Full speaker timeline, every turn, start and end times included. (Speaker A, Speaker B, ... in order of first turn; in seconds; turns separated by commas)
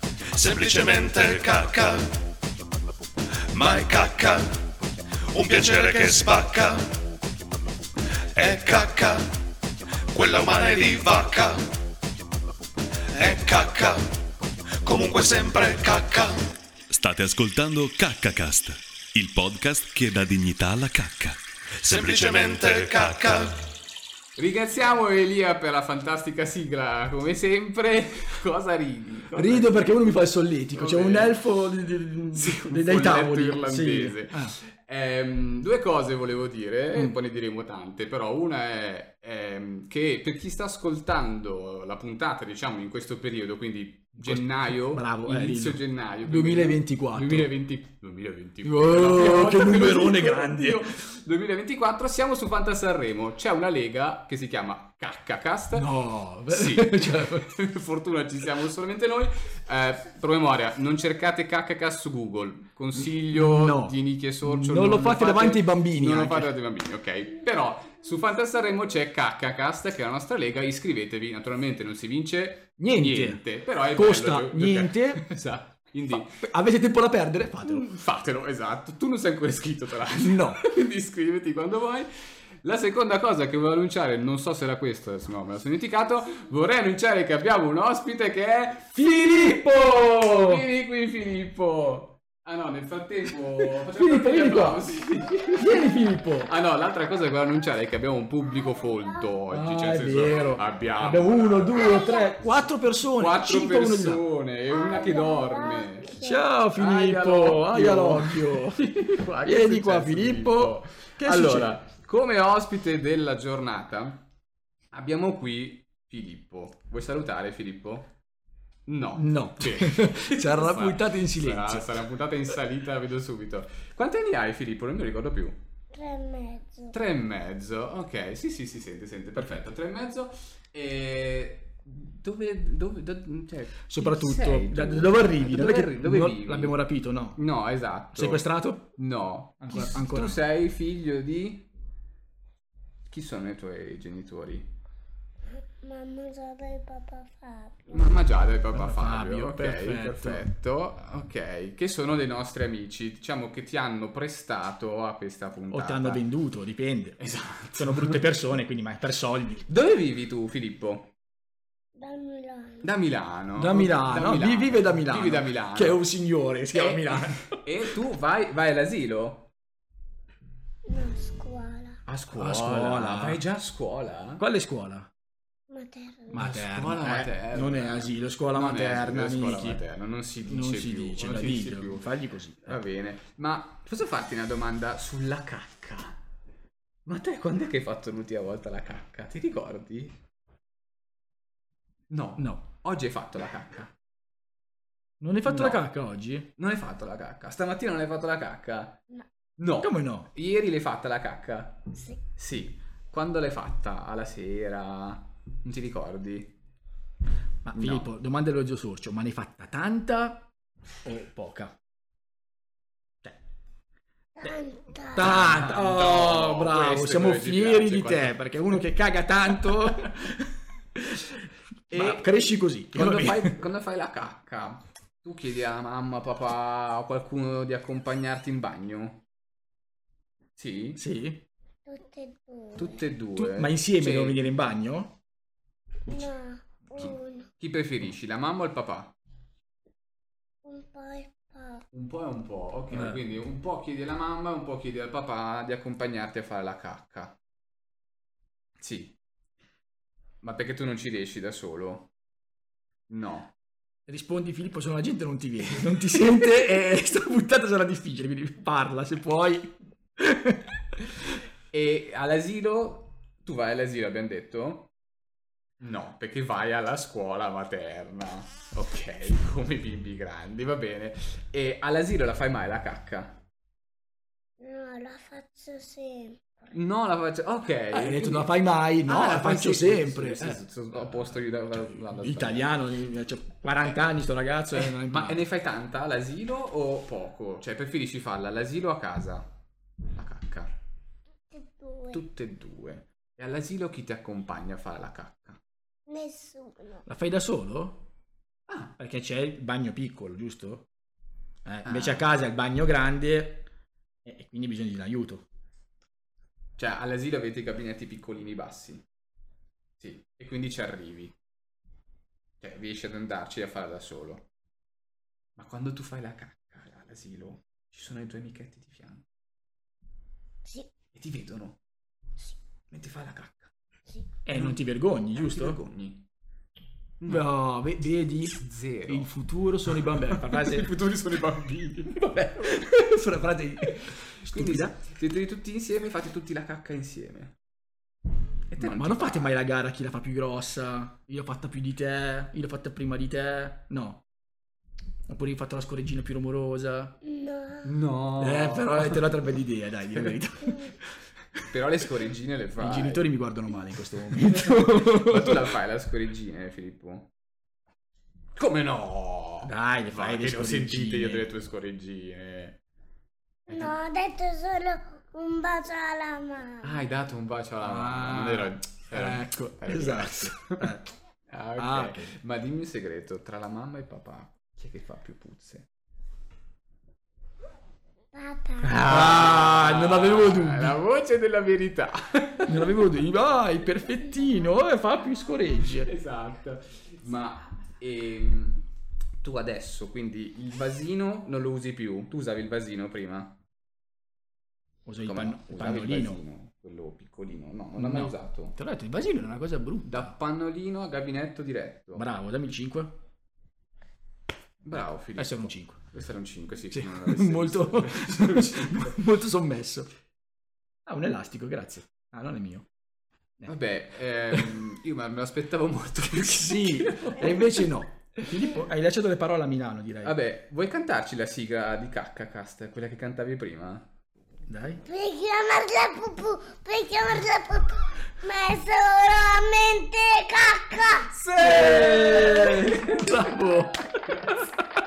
Speaker A: 0.3-2.1, Speaker A: 3.5-4.6, Speaker A: 5.3-6.9, Speaker A: 8.4-9.3, Speaker A: 10.1-11.6, Speaker A: 13.1-14.0, Speaker A: 14.8-16.4, Speaker B: 16.9-21.4, Speaker A: 21.8-23.5, Speaker C: 24.4-30.2, Speaker D: 29.3-34.5, Speaker C: 30.7-31.4, Speaker C: 32.3-55.9, Speaker D: 44.2-47.5, Speaker D: 48.6-51.0, Speaker D: 55.8-57.5, Speaker C: 56.5-76.5, Speaker D: 62.9-66.5, Speaker D: 72.8-75.3, Speaker D: 76.3-77.9, Speaker C: 77.6-89.5, Speaker D: 80.1-80.6, Speaker D: 89.0-90.6, Speaker C: 90.3-95.9, Speaker D: 93.7-94.9, Speaker D: 95.5-96.5, Speaker C: 96.5-102.0, Speaker E: 98.6-99.2, Speaker D: 99.5-104.3, Speaker E: 101.8-102.4, Speaker C: 103.2-106.1, Speaker E: 104.7-106.4, Speaker D: 106.2-111.8, Speaker C: 106.8-114.2, Speaker C: 114.9-118.1, Speaker C: 118.9-125.6, Speaker D: 119.2-122.1, Speaker E: 125.9-126.9, Speaker C: 126.9-136.8, Speaker D: 133.9-137.4, Speaker C: 137.3-141.7, Speaker D: 138.1-138.9, Speaker D: 139.6-140.4, Speaker C: 143.1-144.7, Speaker E: 145.6-148.2, Speaker C: 147.9-156.2, Speaker D: 148.7-150.4, Speaker D: 155.7-159.7, Speaker C: 157.2-158.3, Speaker C: 159.7-161.1, Speaker E: 162.0-162.9, Speaker C: 162.8-166.0, Speaker D: 163.6-167.6, Speaker C: 166.7-169.5, Speaker E: 170.9-172.0, Speaker C: 172.1-174.4, Speaker D: 172.4-173.4, Speaker D: 174.4-175.1, Speaker E: 175.7-176.4, Speaker D: 176.3-179.8, Speaker C: 176.3-182.1, Speaker D: 180.4-182.8, Speaker C: 182.6-186.2, Speaker C: 187.1-190.2, Speaker C: 192.1-193.9, Speaker D: 192.4-192.6, Speaker D: 195.2-196.5, Speaker C: 195.4-195.8, Speaker C: 196.6-199.0, Speaker C: 199.6-206.5, Speaker D: 199.8-200.3, Speaker E: 201.9-202.2, Speaker D: 207.7-210.5, Speaker C: 207.8-208.1, Speaker D: 211.0-211.8, Speaker E: 214.4-215.3, Speaker D: 214.4-223.6, Speaker C: 215.2-218.4, Speaker C: 221.9-222.3, Speaker C: 222.9-229.2, Speaker C: 230.6-231.0, Speaker D: 231.0-231.4, Speaker E: 231.9-233.0, Speaker C: 232.8-234.4, Speaker D: 233.3-235.2, Speaker E: 236.1-237.5, Speaker C: 236.9-239.1, Speaker E: 240.6-241.8, Speaker C: 241.9-247.3, Speaker D: 242.9-243.2, Speaker C: 248.8-249.1, Speaker C: 250.4-252.1, Speaker C: 253.1-253.5, Speaker D: 254.1-261.4, Speaker C: 261.7-264.9, Speaker C: 265.8-273.4, Speaker E: 274.6-276.7, Speaker C: 276.7-282.7, Speaker D: 277.9-281.3, Speaker D: 281.9-285.4, Speaker C: 284.7-289.5, Speaker C: 290.1-290.7, Speaker E: 291.5-292.2, Speaker C: 292.1-295.6, Speaker E: 296.1-297.1, Speaker D: 297.1-298.1, Speaker C: 298.7-298.9, Speaker D: 299.0-300.9, Speaker D: 301.6-303.7, Speaker C: 301.9-302.3, Speaker D: 304.2-305.5, Speaker C: 306.8-309.0, Speaker C: 310.0-311.3, Speaker C: 312.6-314.5, Speaker C: 315.6-319.2, Speaker C: 321.1-321.8, Speaker C: 322.9-323.7, Speaker D: 324.4-325.8, Speaker C: 324.5-324.8, Speaker C: 325.4-326.2, Speaker C: 327.2-327.5, Speaker D: 327.3-330.9, Speaker C: 328.6-329.3, Speaker C: 330.1-332.9, Speaker D: 332.2-335.0, Speaker C: 333.9-337.5, Speaker C: 338.7-339.6, Speaker D: 338.8-344.2, Speaker D: 345.3-347.1, Speaker E: 347.3-347.9, Speaker C: 347.8-349.4, Speaker D: 348.4-351.0, Speaker C: 350.1-350.4, Speaker E: 350.7-350.9, Speaker C: 351.6-353.3, Speaker D: 352.8-355.7, Speaker C: 354.5-357.3, Speaker C: 358.6-362.8, Speaker D: 359.6-361.5, Speaker E: 363.7-367.0, Speaker C: 366.8-370.9, Speaker D: 367.8-371.1, Speaker C: 371.5-375.9, Speaker D: 371.8-372.3, Speaker E: 378.3-379.0, Speaker D: 378.8-381.0, Speaker C: 378.9-382.9, Speaker D: 382.7-386.1, Speaker C: 385.9-388.8, Speaker C: 389.4-393.6, Speaker D: 395.1-396.4, Speaker C: 395.3-398.8, Speaker D: 398.0-400.4, Speaker C: 400.1-402.3, Speaker D: 402.1-403.2, Speaker C: 404.8-409.2, Speaker D: 405.4-406.1, Speaker D: 406.9-410.1, Speaker D: 411.1-412.9, Speaker C: 413.7-417.8, Speaker D: 416.3-420.4, Speaker C: 420.2-424.1, Speaker D: 424.7-425.0, Speaker E: 425.1-431.3, Speaker C: 431.3-433.5, Speaker D: 431.6-434.7, Speaker C: 434.3-434.7